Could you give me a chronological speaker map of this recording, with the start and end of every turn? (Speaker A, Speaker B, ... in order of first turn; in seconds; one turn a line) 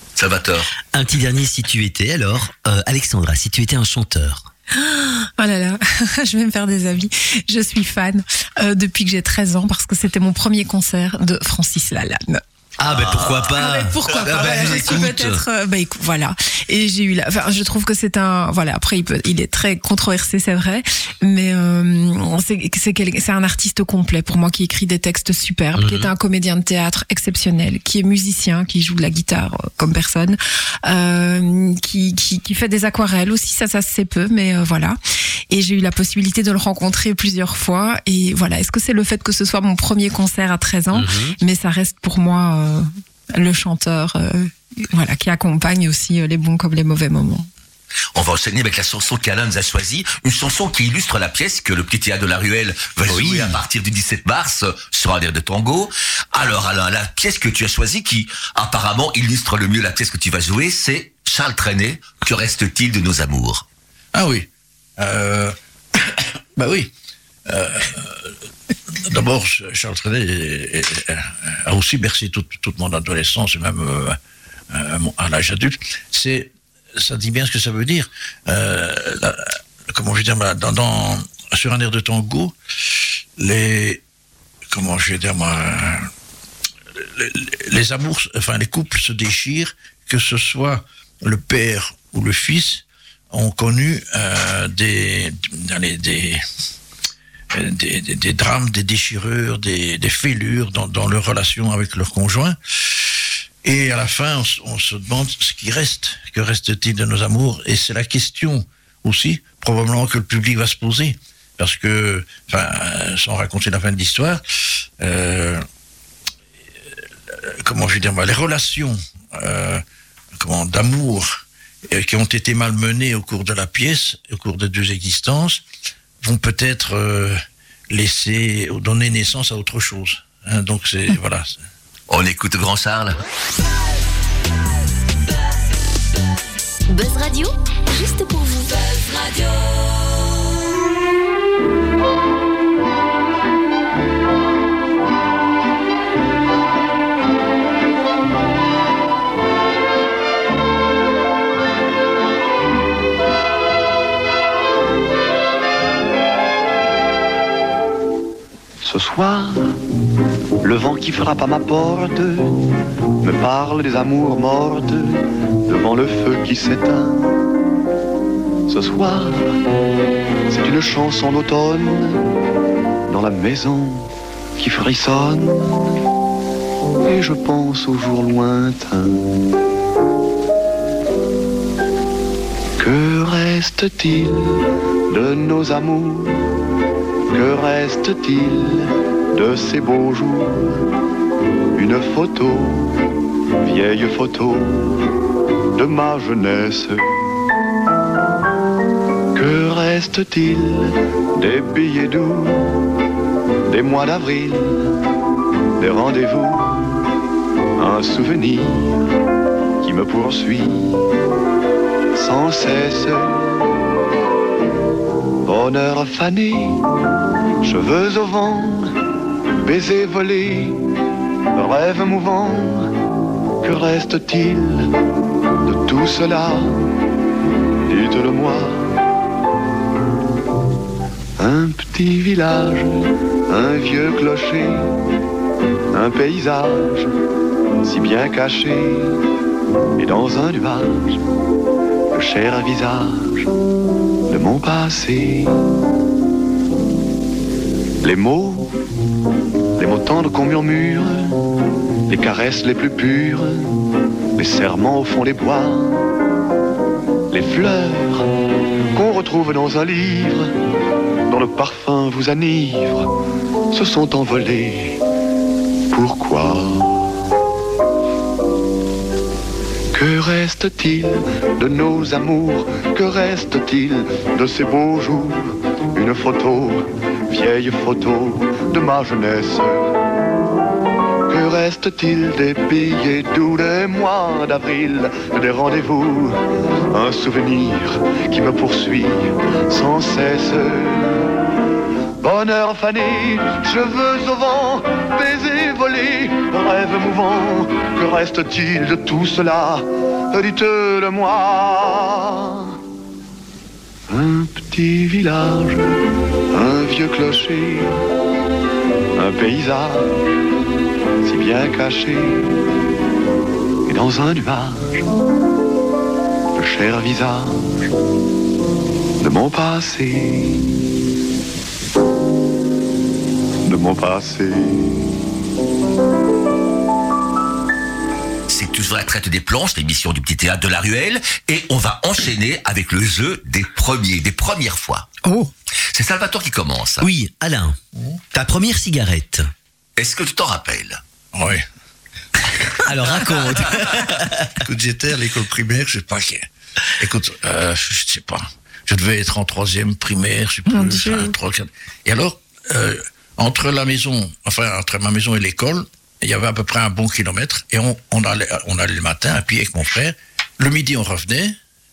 Speaker A: 0.2-0.7
Speaker B: 0.9-4.5
Speaker C: 4.7-12.4
Speaker B: 12.8-15.4
Speaker A: 12.9-15.1
Speaker C: 13.6-35.0
Speaker B: 25.8-26.1
Speaker C: 35.5-47.5
Speaker B: 40.9-41.4
Speaker A: 48.1-63.6
Speaker B: 53.0-53.6
Speaker D: 64.1-66.9
Speaker D: 67.5-68.3
Speaker D: 69.0-74.2
Speaker D: 74.7-82.6
Speaker D: 83.4-84.0
Speaker D: 84.7-86.1
Speaker D: 87.0-96.4
Speaker D: 97.5-114.4
Speaker D: 115.0-115.6
Speaker D: 117.3-119.8
Speaker D: 120.4-125.6
Speaker D: 126.2-131.6
Speaker A: 132.1-133.2
Speaker E: 136.9-139.3
Speaker F: 158.8-159.8
Speaker F: 160.6-162.6
Speaker F: 163.2-167.4
Speaker F: 168.7-169.6
Speaker F: 170.5-172.3
Speaker F: 173.1-176.0
Speaker F: 177.0-179.3
Speaker F: 182.8-186.5
Speaker F: 187.3-190.8
Speaker F: 191.7-193.1
Speaker F: 193.6-195.0
Speaker F: 195.7-197.2
Speaker F: 199.3-202.9
Speaker F: 203.7-204.9
Speaker F: 205.8-206.9
Speaker F: 207.8-209.0
Speaker F: 209.8-211.1
Speaker F: 212.1-213.5
Speaker F: 215.4-216.8
Speaker F: 217.6-218.9
Speaker F: 219.6-220.9
Speaker F: 221.5-222.9
Speaker F: 223.6-224.9
Speaker F: 225.7-226.9
Speaker F: 227.9-229.0
Speaker F: 231.4-234.9
Speaker F: 235.9-237.1
Speaker F: 237.8-239.2
Speaker F: 240.0-241.2
Speaker F: 242.1-243.5
Speaker F: 244.3-245.5
Speaker F: 248.0-248.8
Speaker F: 249.8-251.5
Speaker F: 252.1-253.8
Speaker F: 254.4-256.0
Speaker F: 257.3-258.3
Speaker F: 258.9-260.5
Speaker F: 261.3-263.1
Speaker F: 263.7-265.0
Speaker F: 265.9-267.1
Speaker F: 269.9-280.0
Speaker F: 281.3-291.3
Speaker F: 292.2-302.8
Speaker F: 304.1-306.0
Speaker F: 306.5-308.0
Speaker F: 309.2-310.2
Speaker F: 311.2-312.5
Speaker F: 313.9-315.1
Speaker F: 316.6-317.9
Speaker F: 319.2-320.7
Speaker F: 323.6-325.1
Speaker A: 328.5-335.1
Speaker C: 335.2-335.5
Speaker A: 335.9-337.1
Speaker B: 337.0-337.8
Speaker B: 338.3-339.4
Speaker A: 340.0-341.0
Speaker D: 341.3-341.6
Speaker B: 342.8-344.5
Speaker D: 344.6-346.5
Speaker D: 347.0-361.6
Speaker C: 350.7-351.3